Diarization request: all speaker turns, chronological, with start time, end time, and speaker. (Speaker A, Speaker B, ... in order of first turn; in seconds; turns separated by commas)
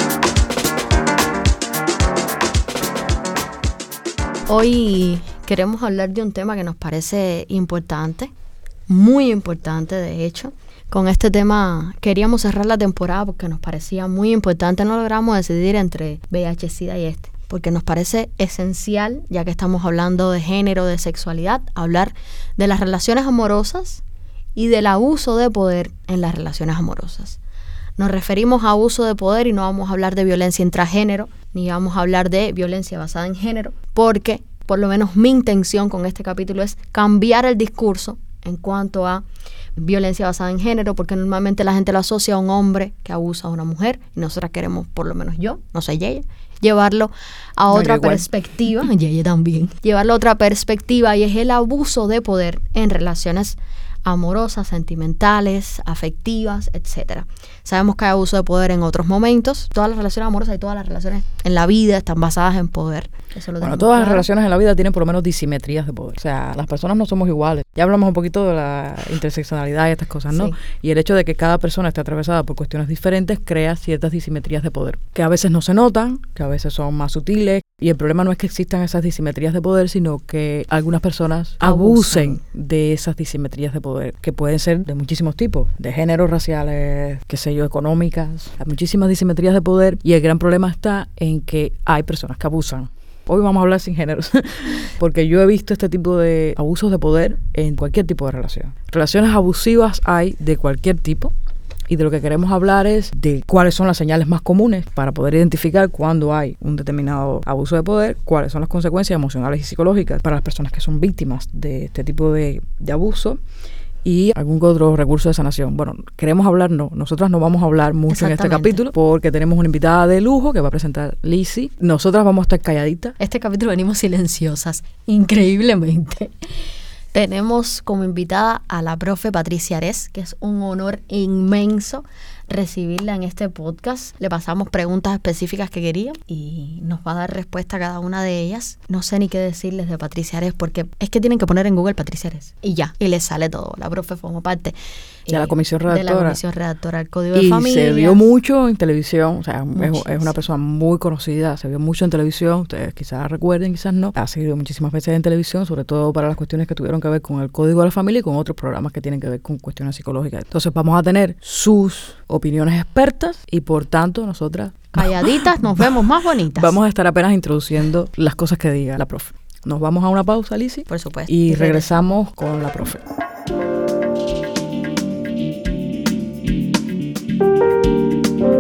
Speaker A: 4.5-8.3, Speaker A: 8.9-24.0, Speaker A: 24.6-27.4, Speaker A: 28.0-64.3, Speaker B: 47.7-48.2, Speaker B: 63.6-101.3, Speaker A: 70.3-70.6, Speaker A: 81.6-82.4, Speaker B: 101.9-113.4, Speaker B: 114.0-123.2, Speaker A: 118.1-118.9, Speaker A: 123.2-126.3, Speaker A: 127.1-148.2, Speaker B: 145.3-146.4, Speaker B: 147.3-165.9, Speaker A: 149.8-150.4, Speaker A: 164.9-166.8, Speaker B: 166.6-173.0, Speaker A: 170.9-172.1